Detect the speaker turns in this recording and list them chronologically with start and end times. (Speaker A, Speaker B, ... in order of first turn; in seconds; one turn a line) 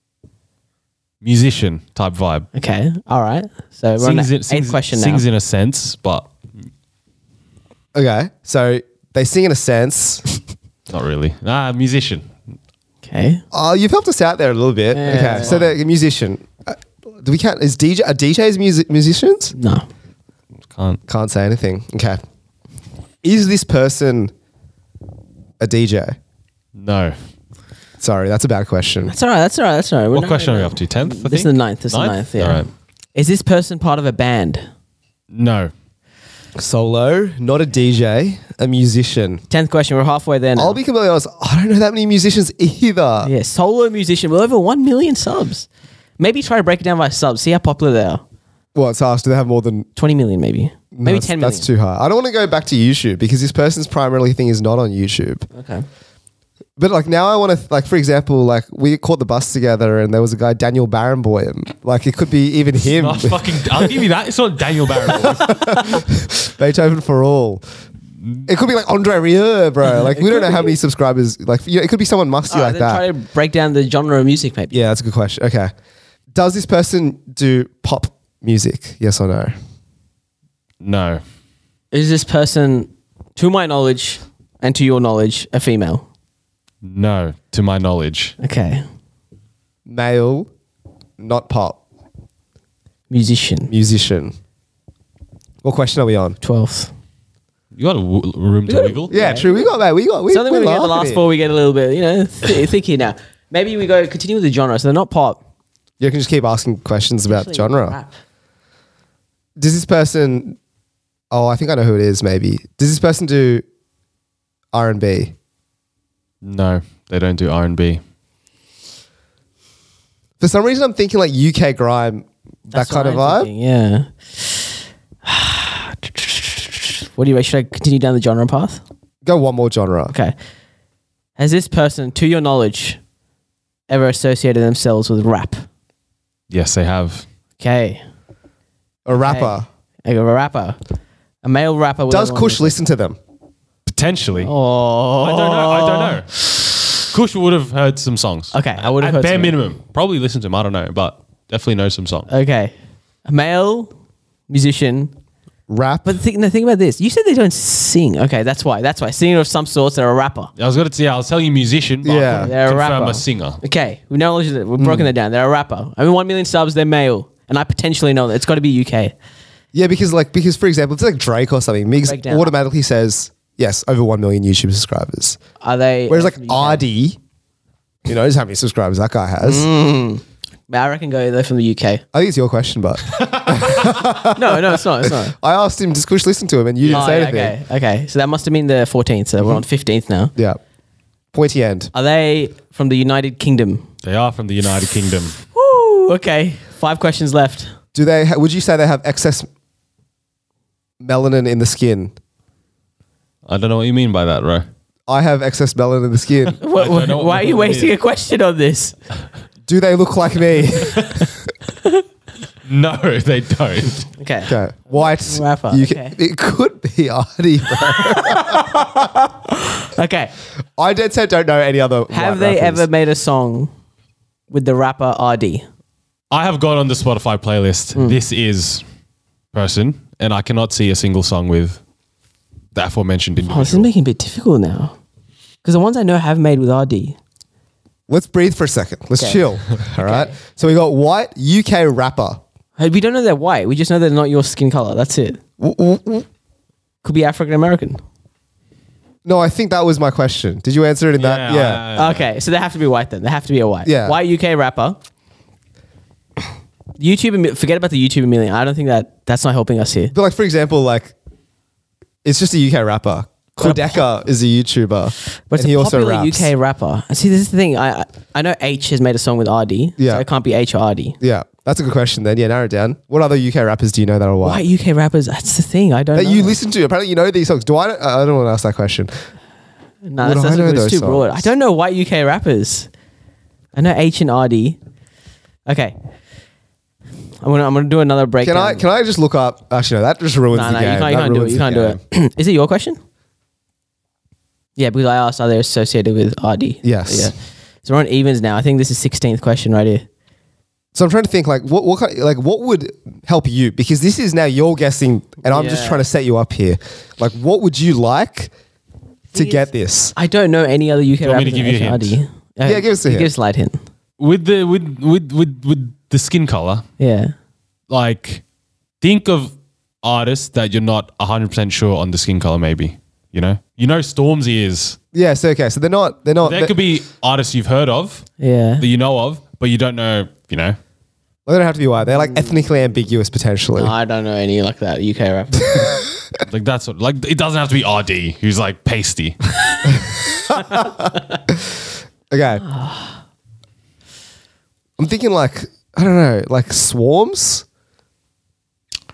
Speaker A: 1.2-2.5
Speaker B: 2.5-5.2
Speaker A: 4.0-6.3
Speaker C: 7.9-10.2
Speaker A: 10.9-12.3
Speaker B: 13.0-13.4
Speaker C: 13.5-19.5
Speaker B: 14.9-15.5
Speaker A: 15.4-15.7
Speaker B: 19.5-19.9
Speaker A: 20.7-21.0
Speaker C: 21.1-22.2
Speaker C: 23.2-24.3
Speaker C: 25.6-26.1
Speaker A: 26.8-27.1
Speaker C: 28.0-29.1
Speaker B: 29.1-34.7
Speaker A: 30.1-32.7
Speaker A: 35.3-35.7
Speaker C: 36.6-39.4
Speaker B: 39.5-40.8
Speaker C: 40.5-43.3
Speaker B: 43.2-45.7
Speaker B: 46.2-48.2
Speaker C: 48.7-49.9
Speaker B: 50.0-51.7
Speaker C: 50.9-55.5
Speaker B: 55.5-55.8
Speaker C: 56.8-63.6
Speaker A: 62.8-65.8
Speaker C: 65.1-67.6
Speaker C: 68.5-73.0
Speaker B: 69.8-70.8
Speaker B: 72.5-74.8
Speaker C: 74.7-75.7
Speaker C: 76.3-79.5
Speaker A: 80.8-81.2
Speaker B: 81.9-86.0
Speaker A: 86.8-88.3
Speaker B: 88.4-88.8
Speaker C: 89.8-90.5
Speaker C: 91.2-91.8
Speaker B: 93.1-93.7
Speaker C: 93.7-94.3
Speaker C: 95.6-96.4
Speaker B: 96.4-96.9
Speaker A: 97.8-99.1
Speaker B: 98.7-99.7
Speaker C: 99.1-101.2
Speaker B: 100.3-105.4
Speaker C: 106.0-108.0
Speaker B: 107.3-108.1
Speaker C: 109.6-110.6
Speaker C: 111.3-113.6
Speaker C: 114.7-115.3
Speaker A: 116.4-118.0
Speaker C: 120.4-123.5
Speaker B: 122.7-124.7
Speaker B: 125.2-128.8
Speaker C: 129.2-130.1
Speaker B: 131.4-133.0
Speaker B: 133.9-135.7
Speaker A: 136.5-137.2
Speaker B: 137.6-138.0
Speaker C: 139.1-139.7
Speaker B: 139.2-140.8
Speaker B: 141.4-142.8
Speaker C: 142.1-143.2
Speaker A: 143.9-144.5
Speaker B: 144.4-146.2
Speaker A: 145.2-152.3
Speaker B: 148.5-149.6
Speaker B: 152.3-152.7
Speaker B: 153.2-153.9
Speaker B: 154.5-155.1
Speaker C: 155.7-156.1
Speaker B: 156.0-160.5
Speaker A: 160.6-163.6
Speaker C: 162.0-162.5
Speaker B: 162.3-169.1
Speaker C: 164.8-165.1
Speaker C: 169.7-175.4
Speaker B: 172.0-172.5
Speaker B: 175.6-176.8
Speaker C: 176.1-177.2
Speaker C: 178.1-179.7
Speaker B: 179.4-182.0
Speaker C: 182.1-187.6
Speaker A: 183.2-184.0
Speaker B: 184.3-185.3
Speaker A: 186.8-187.1
Speaker B: 186.9-190.3
Speaker C: 191.3-191.9
Speaker B: 191.9-193.8
Speaker A: 194.0-195.4
Speaker B: 195.5-197.7
Speaker C: 197.9-199.5
Speaker C: 201.0-202.1
Speaker A: 203.4-204.7
Speaker C: 205.1-206.6
Speaker A: 206.5-207.9
Speaker B: 206.6-209.0
Speaker C: 209.7-211.2
Speaker A: 212.6-214.1
Speaker B: 214.2-216.2
Speaker C: 214.5-219.0
Speaker B: 218.0-220.3
Speaker C: 220.8-222.9
Speaker B: 222.1-223.7
Speaker B: 224.5-225.7
Speaker A: 226.3-228.8
Speaker A: 229.5-231.8
Speaker A: 232.7-233.9
Speaker B: 233.5-234.9
Speaker B: 235.6-237.2
Speaker C: 238.1-242.4
Speaker B: 239.2-240.3
Speaker B: 242.8-245.4
Speaker C: 245.6-246.2
Speaker B: 247.0-248.0
Speaker C: 249.2-251.8
Speaker A: 251.2-252.2
Speaker B: 251.9-255.0
Speaker C: 253.8-254.2
Speaker B: 257.0-260.1
Speaker C: 260.1-261.1
Speaker C: 262.2-266.5
Speaker B: 263.6-264.0
Speaker B: 265.5-271.2
Speaker C: 270.0-270.2
Speaker C: 271.2-274.6
Speaker B: 274.4-276.6
Speaker C: 276.1-279.1
Speaker B: 280.0-282.9
Speaker C: 280.2-281.5
Speaker B: 283.7-284.8
Speaker B: 285.6-285.9
Speaker B: 287.4-288.8
Speaker C: 288.4-292.0
Speaker B: 290.5-293.0
Speaker B: 294.8-300.1
Speaker C: 296.8-297.3
Speaker C: 300.9-308.5
Speaker B: 305.5-306.0
Speaker C: 309.3-310.1
Speaker B: 309.3-313.8
Speaker A: 311.2-312.2
Speaker C: 312.6-313.3
Speaker A: 314.2-316.8
Speaker B: 317.0-317.3
Speaker A: 317.9-318.4
Speaker A: 319.0-325.0
Speaker C: 325.1-326.7
Speaker A: 326.4-328.3
Speaker B: 328.4-328.8
Speaker A: 328.8-330.8
Speaker C: 331.4-333.9
Speaker B: 332.2-332.5
Speaker B: 333.8-336.0
Speaker C: 335.7-336.0
Speaker A: 336.5-339.4
Speaker C: 340.1-341.6
Speaker B: 340.5-341.4
Speaker C: 342.3-342.6
Speaker B: 342.6-343.2
Speaker C: 345.0-347.6